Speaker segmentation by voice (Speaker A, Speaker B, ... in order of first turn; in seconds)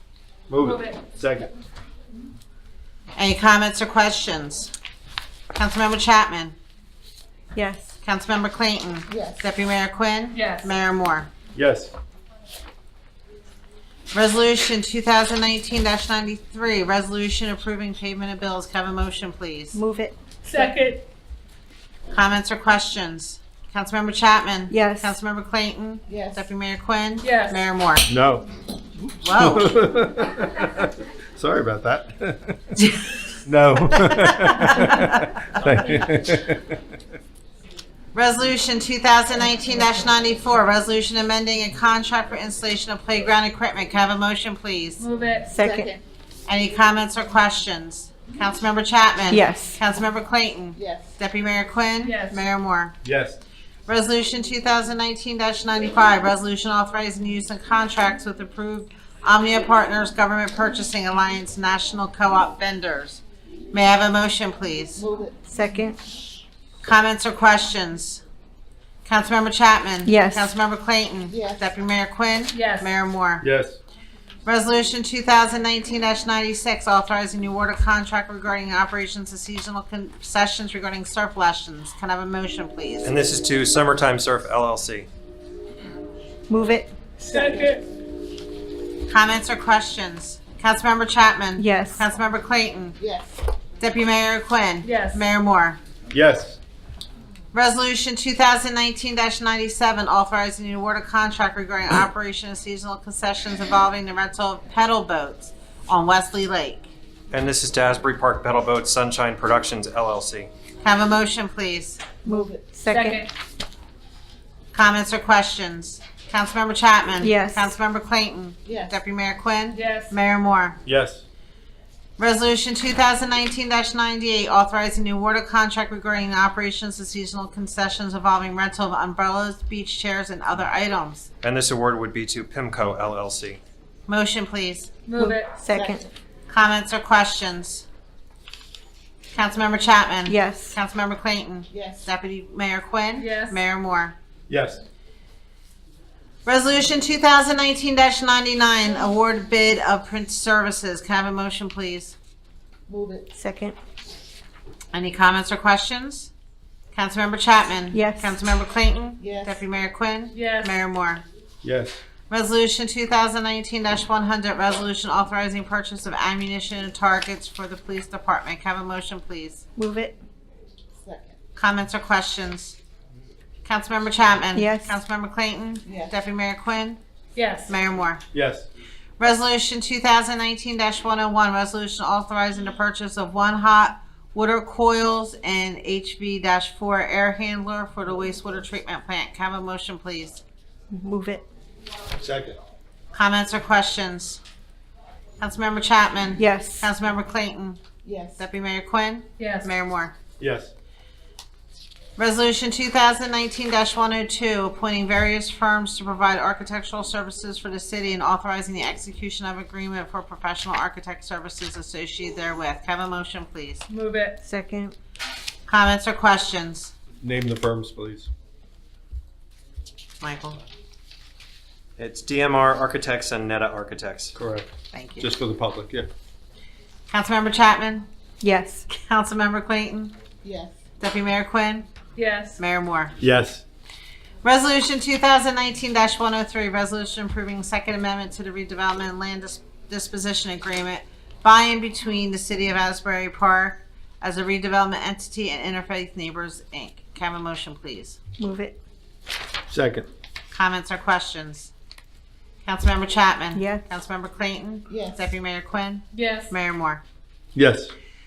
Speaker A: 0.5-1.5, 11.5-11.9, 28.1-28.4, 29.3-32.7, 33.4-36.7, 53.0-53.4, 73.4-73.8, 96.1-96.6, 120.8-121.2, 144.5-144.8, 161.6-162.0, 178.3-178.7, 192.2-192.6, 200.4-200.7, 217.2-218.3, 224.3-226.1, 233.2-233.6, 249.7-250.1, 257.5-257.9
Speaker B: 0.6-1.0, 10.3-10.7, 20.4-21.0, 27.2-27.6, 45.0-45.5, 52.0-52.4, 72.5-72.9, 87.2-87.8, 94.8-95.2, 112.9-113.3, 119.7-120.1, 135.1-135.6, 143.2-143.6, 160.3-160.8, 177.3-177.7, 199.4-199.7, 213.9-214.4, 232.2-232.6, 256.1-256.5
Speaker C: 3.1-4.7, 5.5-6.5, 8.0-11.3, 14.1-19.8, 22.1-28.1, 29.2-29.8, 32.8-33.1, 34.0-35.4, 38.1-45.0, 46.5-53.0, 53.9-65.0, 66.8-68.2, 69.0-73.5, 74.4-83.2, 89.1-93.0, 93.8-95.8, 97.5-106.9, 110.8-112.0, 114.7-120.8, 122.2-131.3, 134.1-134.9, 136.5-137.8, 139.3-144.2, 146.4-152.2, 154.9-156.3, 156.9-161.2, 162.3-169.6, 171.6-172.8, 173.6-177.0, 177.7-178.2, 179.2-190.4, 193.1-194.4, 195.4-197.8, 198.4-200.1, 202.2-213.8, 215.7-216.9, 220.2-220.6, 224.9-225.3, 227.1-228.1, 228.9-230.1, 231.0-231.9, 232.6-233.2, 234.4-248.2, 250.5-251.7, 252.6-257.0
Speaker D: 7.5-7.8, 19.8-20.1, 24.7-25.0, 65.5-65.9, 70.0-70.4, 86.5-86.8, 91.6-91.9, 112.8-113.1, 135.2-135.8, 140.3-140.7, 153.4-153.7, 169.8-170.1, 190.9-191.4, 196.4-196.8, 214.4-214.8, 228.4-228.8, 248.4-248.7
Speaker E: 9.1-9.4, 26.1-26.5, 45.5-46.0, 50.7-51.1, 65.0-65.4, 71.3-71.6, 87.3-87.6, 93.0-93.4, 112.2-112.7, 118.7-119.0, 135.7-136.1, 141.7-142.0, 152.9-153.3, 159.2-159.6, 171.0-171.3, 175.8-176.1, 198.0-198.4, 230.4-230.8, 254.9-255.3
Speaker F: 83.0-85.1, 107.3-110.5, 131.4-133.6, 222.0-224.3